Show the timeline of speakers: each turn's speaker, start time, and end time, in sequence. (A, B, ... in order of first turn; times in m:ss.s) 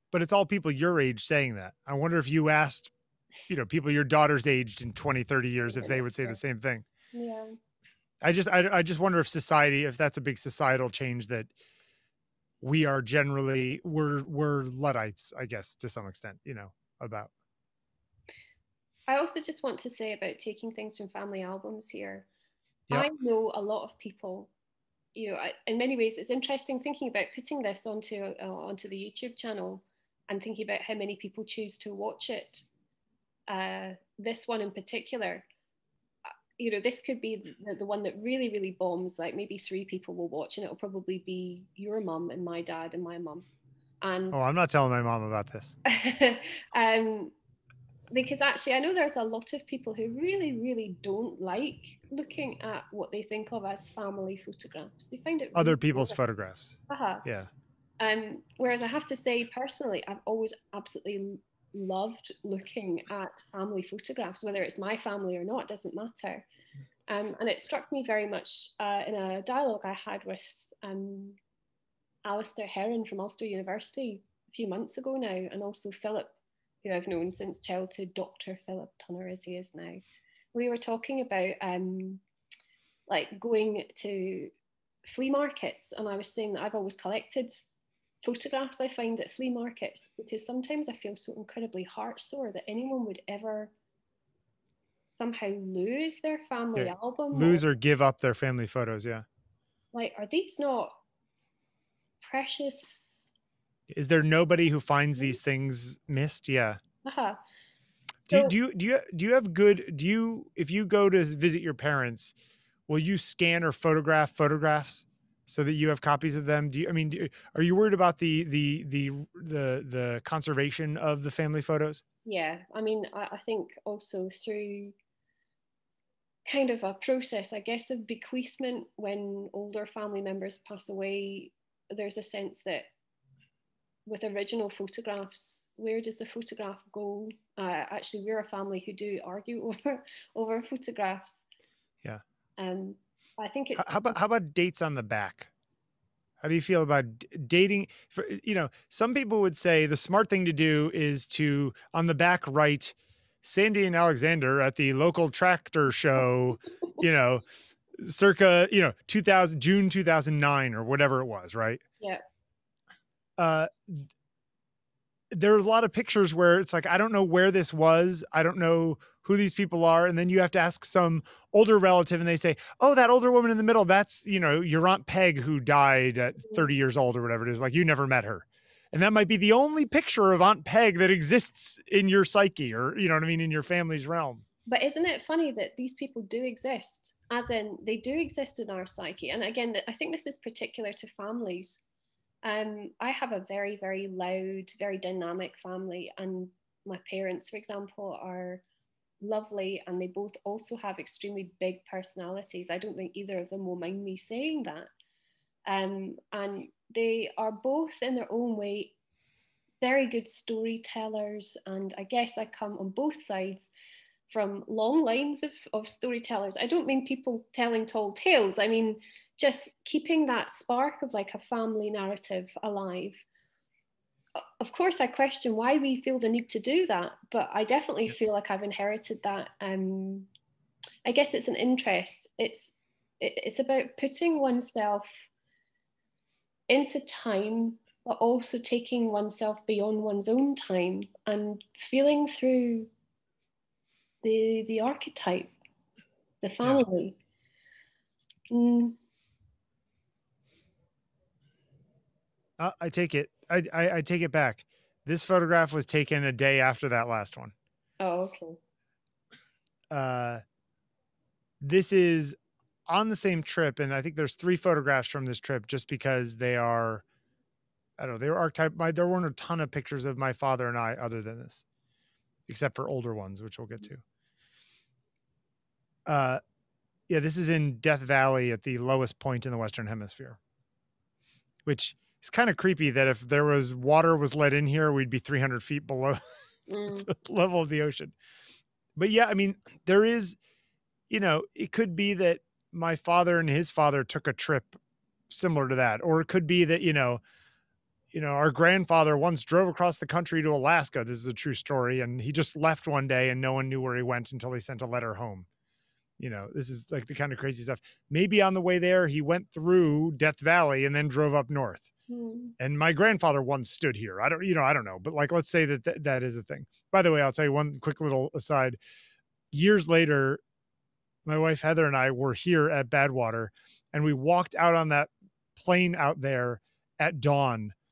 0:00.1-0:02.9 A
0:03.5-0:06.8 A
0:05.7-0:06.4 B
0:07.1-0:07.6 B
0:08.2-0:11.5 A
0:12.6-0:17.3 A
0:19.1-0:22.3 B
0:22.9-0:24.5 B
0:25.2-0:32.7 B
0:33.5-0:35.4 B
0:36.6-0:43.5 B
0:44.0-0:44.4 B
0:44.3-0:45.8 A
0:45.8-0:47.3 B
0:48.1-0:56.2 B
0:55.6-0:57.5 A
0:56.9-0:57.3 B
0:58.0-1:06.4 B
1:07.1-1:11.4 B
1:12.2-1:16.3 B
1:16.8-1:20.0 B
1:20.5-1:22.2 B
1:23.1-1:24.5 B
1:25.1-1:27.7 B
1:28.2-1:33.7 B
1:35.1-1:37.6 B
1:36.8-1:39.2 A
1:39.9-1:41.0 B
1:42.2-1:43.3 B
1:43.9-1:46.8 A
1:47.0-1:47.4 B
1:48.3-1:52.3 A
1:48.3-1:48.6 B
1:52.9-2:02.0 A
2:02.3-2:05.0 B
2:06.5-2:12.9 B
2:14.1-2:21.4 B
2:22.6-2:24.2 B
2:23.8-2:25.5 A
2:26.4-2:37.4 A
2:38.0-2:41.8 A
2:43.4-2:44.1 A
2:45.3-3:04.4 A
3:04.7-3:11.8 B
3:12.4-3:18.6 B
3:19.2-3:24.9 B
3:25.7-3:29.0 B
3:29.8-3:33.7 B
3:34.3-3:43.2 B
3:44.4-3:50.3 B
3:51.0-3:55.3 B
3:56.7-4:02.9 B
4:04.2-4:05.5 B
4:06.4-4:07.2 B
4:08.5-4:09.0 B
4:12.6-4:17.5 A
4:18.0-4:18.6 B
4:19.9-4:20.4 A
4:21.6-4:22.4 A
4:22.9-4:27.0 A
4:28.0-4:31.6 A
4:32.5-4:34.0 A
4:36.1-4:36.4 A
4:37.1-4:40.4 A
4:41.7-4:46.2 A
4:46.7-4:47.1 B
4:47.1-4:48.1 A
4:49.0-4:50.4 A
4:51.1-4:54.8 A
4:55.3-4:57.2 A
4:58.1-5:05.5 A
5:06.2-5:11.9 A
5:12.1-5:12.6 B
5:12.6-5:18.8 A
5:19.5-5:20.4 A
5:21.2-5:27.8 A